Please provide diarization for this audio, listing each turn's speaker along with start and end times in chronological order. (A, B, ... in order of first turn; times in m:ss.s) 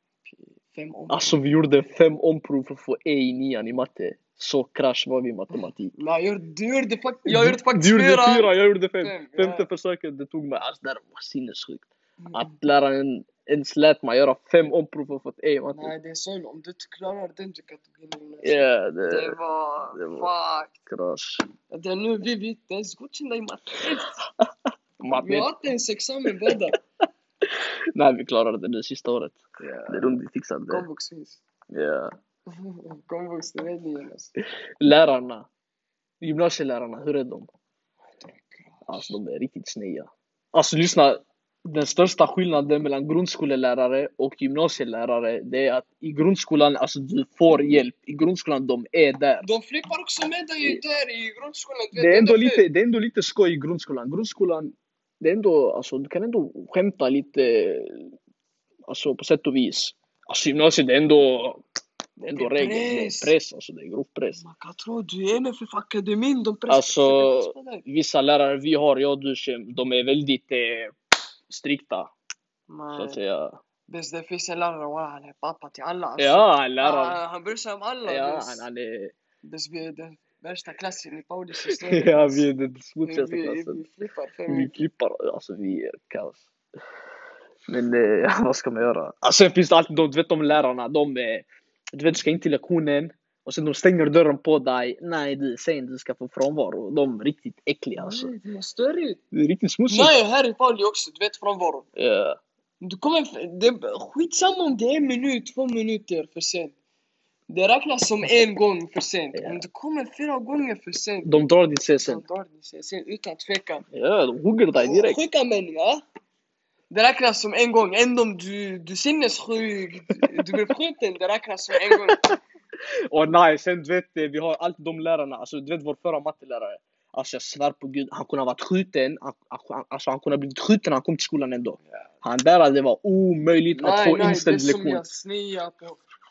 0:00.3-0:01.4 A
0:01.1-0:05.9 B
0:05.9-0:09.7 A
0:07.3-0:15.9 B
0:12.2-0:12.5 A
0:15.7-0:20.8 A
0:18.4-0:19.4 B
0:20.0-0:20.3 B
0:20.9-0:21.4 B
0:21.7-0:24.2 A
0:25.0-0:25.5 B
0:25.2-0:26.8 A
0:27.6-0:30.9 B
0:29.6-0:30.2 A
0:30.7-0:31.4 A
0:31.7-0:32.1 B
0:32.5-0:34.3 A
0:34.8-0:35.5 B
0:36.2-0:37.5 B
0:38.2-0:39.2 A
0:38.9-0:49.5 B
0:49.4-0:52.6 A
0:51.9-0:58.2 B
0:58.9-1:01.6 B
1:02.2-1:04.4 B
1:02.3-1:03.3 A
1:04.4-1:07.8 A
1:06.7-1:11.0 B
1:11.5-1:12.1 B
1:12.7-1:13.2 A
1:12.9-1:13.6 B
1:13.9-1:18.7 A
1:16.2-1:17.2 B
1:18.1-1:19.2 B
1:19.4-1:22.5 A
1:21.7-1:23.8 B
1:23.0-1:24.8 A
1:24.5-1:26.4 B
1:27.7-1:38.3 B
1:38.0-1:39.2 A
1:39.3-1:40.2 B
1:39.9-1:41.9 A
1:42.0-1:42.4 B
1:42.8-1:46.8 A
1:47.5-1:51.4 A
1:49.3-1:49.6 B
1:51.2-1:52.2 B
1:52.0-1:53.9 A
1:53.9-1:55.2 B
1:54.7-1:56.0 A
1:56.9-2:02.4 A
2:03.1-2:15.0 B
2:13.7-2:16.0 A